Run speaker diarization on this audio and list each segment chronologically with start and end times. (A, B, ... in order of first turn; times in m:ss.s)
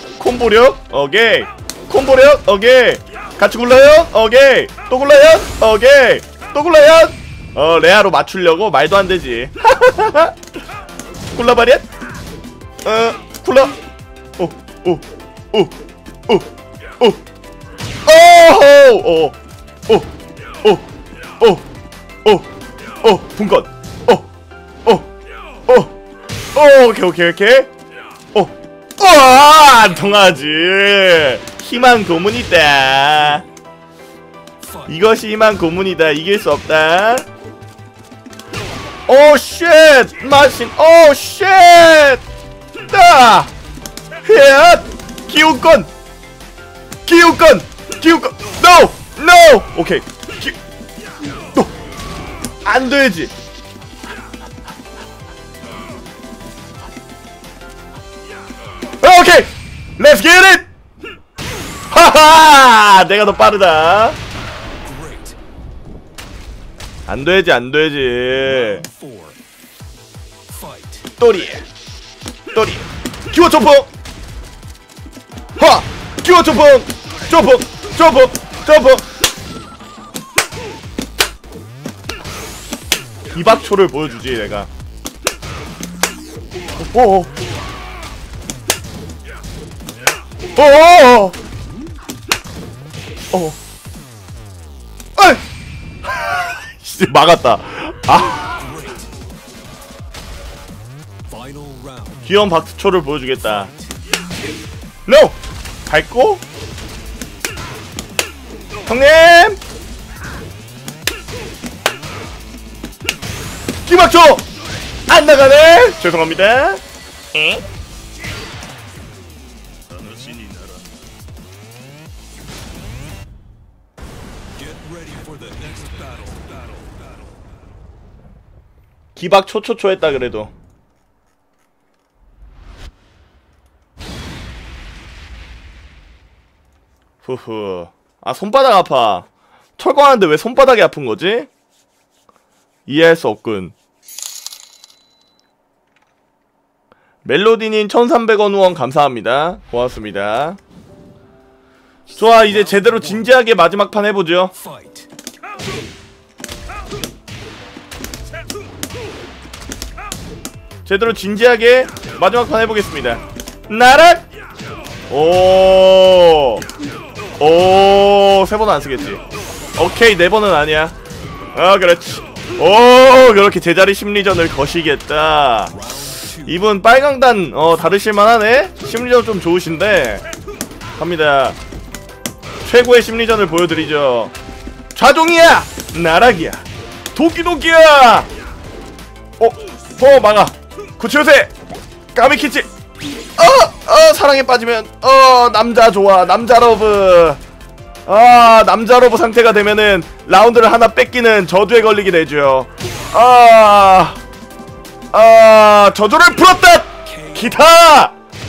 0:00.2-0:10.4 A
0:11.3-0:11.8 A
0:12.8-0:13.8 A
0:14.4-0:15.7 A
0:18.0-0:19.4 A
0:21.4-0:21.6 A
0:23.0-0:24.3 A
0:25.7-0:25.9 A
0:26.5-0:27.7 A
0:28.3-0:33.4 A
0:34.9-0:37.3 A
0:39.1-0:42.2 A
0:42.9-0:43.5 A
0:44.2-0:45.9 A
0:47.0-0:50.6 A
0:52.6-0:53.3 A
0:59.0-1:00.7 A
1:01.9-1:04.2 A
1:04.8-1:05.4 B
1:07.1-1:08.9 A
1:08.8-1:09.4 B
1:10.5-1:10.9 B
1:11.2-1:11.7 A
1:12.5-1:13.9 A
1:15.6-1:19.1 A
1:23.3-1:24.7 A
1:26.8-1:27.3 A
1:30.6-1:31.4 A
1:33.3-1:33.6 A
1:35.2-1:35.4 A
1:36.1-1:38.7 A
1:41.3-1:42.2 B
1:42.2-1:43.7 A
1:45.1-1:46.4 A
1:48.9-1:49.6 A
1:53.8-1:54.5 A
1:55.1-1:56.8 A
1:57.3-1:57.6 A
1:59.9-2:00.9 B
2:04.7-2:06.5 B
2:09.2-2:10.5 A
2:17.2-2:21.5 A
2:22.9-2:23.8 A
2:27.2-2:30.6 A
2:32.1-2:34.6 A
2:40.8-2:44.3 A
2:45.1-2:46.6 A
2:47.4-2:49.2 A
2:49.8-2:51.0 A
2:51.6-2:55.8 A
2:56.4-3:00.2 A
3:01.0-3:01.6 A
3:02.6-3:04.3 A
3:05.0-3:08.3 A
3:09.4-3:11.5 A
3:12.1-3:12.7 A
3:13.4-3:17.4 A
3:18.1-3:24.2 A
3:25.1-3:28.2 A